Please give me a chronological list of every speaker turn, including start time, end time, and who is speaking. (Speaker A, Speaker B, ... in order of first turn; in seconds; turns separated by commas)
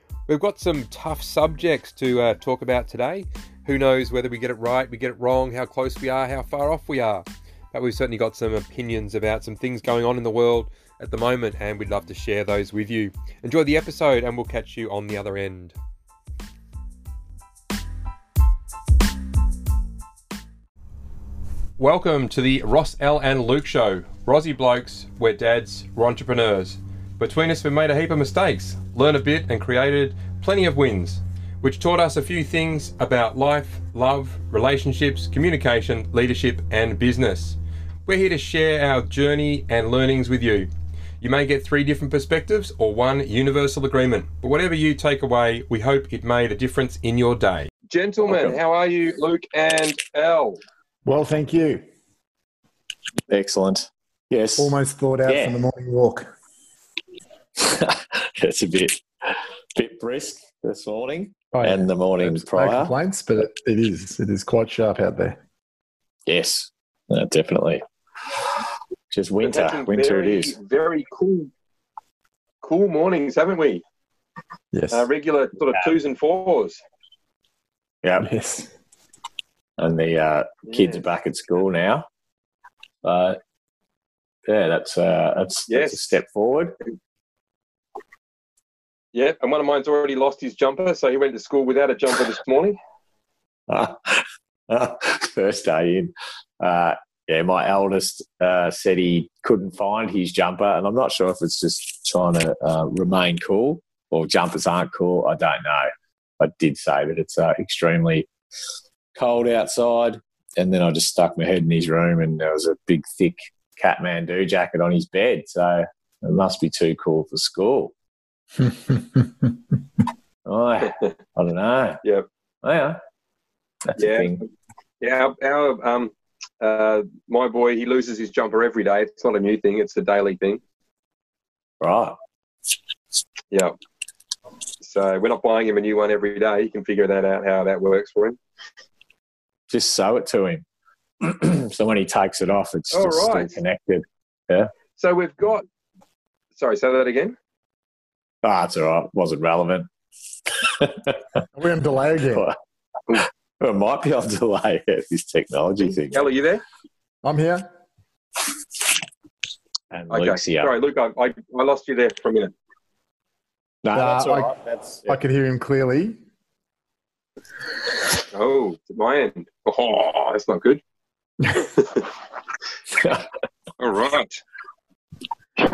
Speaker A: 0.3-15.7, Speaker A: 21.8-40.7, Speaker A: 41.2-50.6, Speaker B: 48.2-48.6, Speaker C: 51.0-51.8, Speaker B: 53.3-54.7, Speaker C: 54.6-56.3, Speaker B: 55.2-55.6, Speaker B: 57.6-62.9, Speaker C: 61.5-65.3, Speaker B: 66.3-67.8, Speaker B: 69.1-70.5, Speaker A: 69.4-71.5, Speaker A: 72.6-73.8, Speaker C: 74.7-75.1, Speaker A: 74.9-76.8, Speaker B: 78.0-78.3, Speaker C: 78.2-78.7, Speaker B: 79.8-82.0, Speaker A: 80.7-81.0, Speaker B: 83.0-83.4, Speaker B: 84.5-86.7, Speaker A: 85.7-86.2, Speaker A: 89.1-92.8, Speaker B: 93.7-105.9, Speaker B: 106.4-108.3, Speaker B: 109.1-117.9, Speaker B: 120.5-122.0, Speaker B: 122.6-123.0, Speaker B: 123.9-124.4, Speaker A: 124.0-124.4, Speaker A: 125.0-130.6, Speaker B: 131.8-132.2, Speaker A: 134.8-138.4, Speaker B: 139.7-140.6, Speaker B: 141.2-144.7, Speaker A: 142.9-143.6, Speaker A: 145.0-145.6, Speaker A: 146.5-147.3, Speaker B: 148.4-149.9, Speaker B: 150.6-151.2, Speaker C: 151.5-152.5, Speaker B: 153.6-156.2, Speaker A: 156.1-156.6, Speaker C: 157.2-157.6, Speaker B: 159.9-160.7, Speaker A: 160.1-162.5, Speaker B: 163.8-165.2, Speaker C: 163.9-164.5, Speaker C: 165.0-166.2, Speaker A: 168.3-170.8, Speaker A: 171.5-172.1, Speaker A: 173.8-174.3